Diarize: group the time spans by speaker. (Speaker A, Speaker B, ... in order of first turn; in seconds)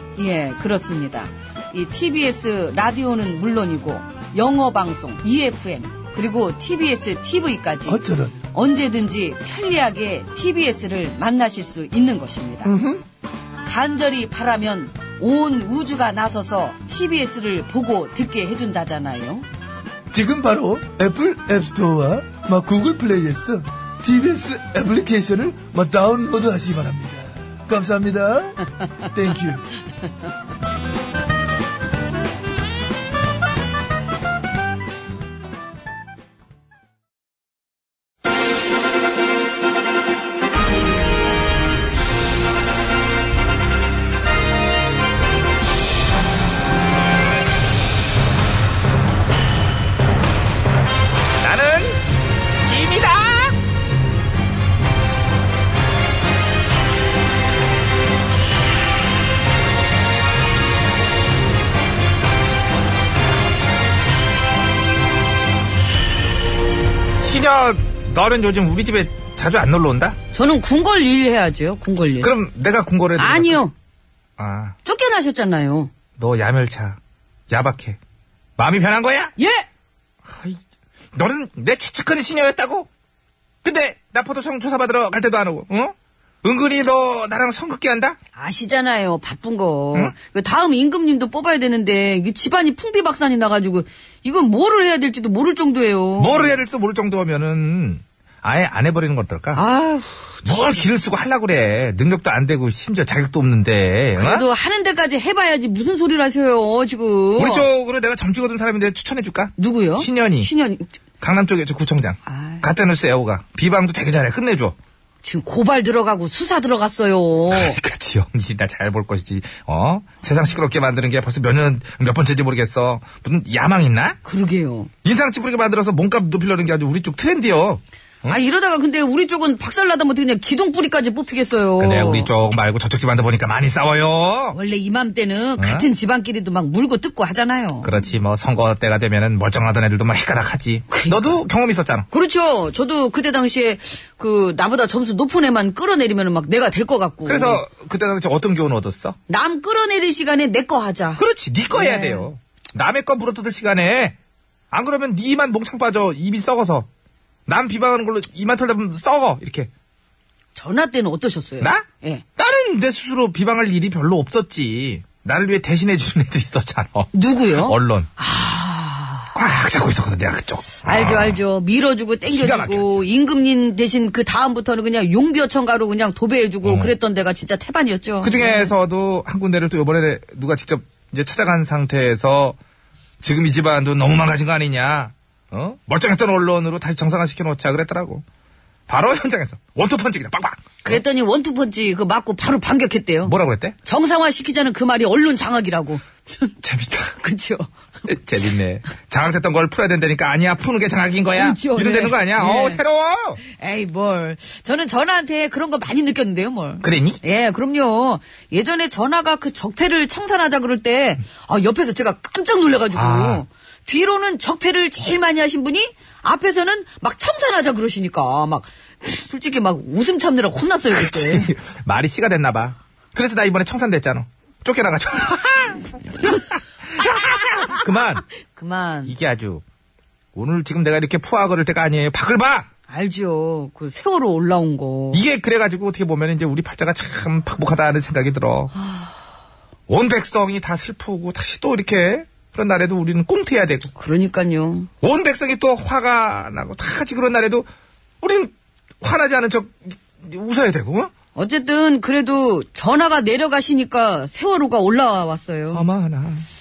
Speaker A: 0.1-12.7, 13.6-19.4, 70.3-72.3, 73.2-73.7, 74.8-75.9, 79.4-79.7, 88.3-96.6, 99.5-100.5, 104.2-107.7, 109.6-110.9, 112.2-112.7, 115.2-117.8, 124.2-124.9, 128.2-132.3, 134.5-138.0, 140.9-141.4, 142.1-147.6, 149.3-152.3, 160.5-162.2, 167.1-169.3, 170.8-178.7, 190.8-196.5, 197.2-197.7, 201.3-202.8, 203.4-221.5, 228.5-229.1, 232.9-235.2, 238.8-239.1, 243.9-244.9, 251.3-255.8
Speaker B: 7.8-8.4, 12.6-13.0, 20.1-29.7
Speaker C: 51.4-52.0, 52.6-53.6, 67.2-70.2, 72.2-73.6, 74.4-74.8, 76.2-77.0, 77.5-78.0, 78.6-79.3, 80.2-80.6, 81.1-82.9, 83.6-88.2, 96.2-99.6, 100.4-104.5, 107.4-110.5, 111.2-114.7, 117.5-124.2, 125.0-128.4, 131.8-134.6, 135.6-135.9, 137.8-142.1, 147.2-149.2, 151.2-154.2, 154.7-156.9, 157.5-159.7, 162.4-168.1, 169.3-171.4, 172.3-173.1, 176.6-176.9, 178.2-182.6, 183.2-188.2, 188.9-191.0, 193.2-193.8, 196.6-197.1, 198.1-203.4, 206.8-207.2, 212.9-213.4, 220.9-226.4, 226.9-228.2, 229.1-229.6, 230.3-232.7, 235.1-238.7, 239.9-243.9, 245.0-247.7, 248.2-251.1, 255.7-256.4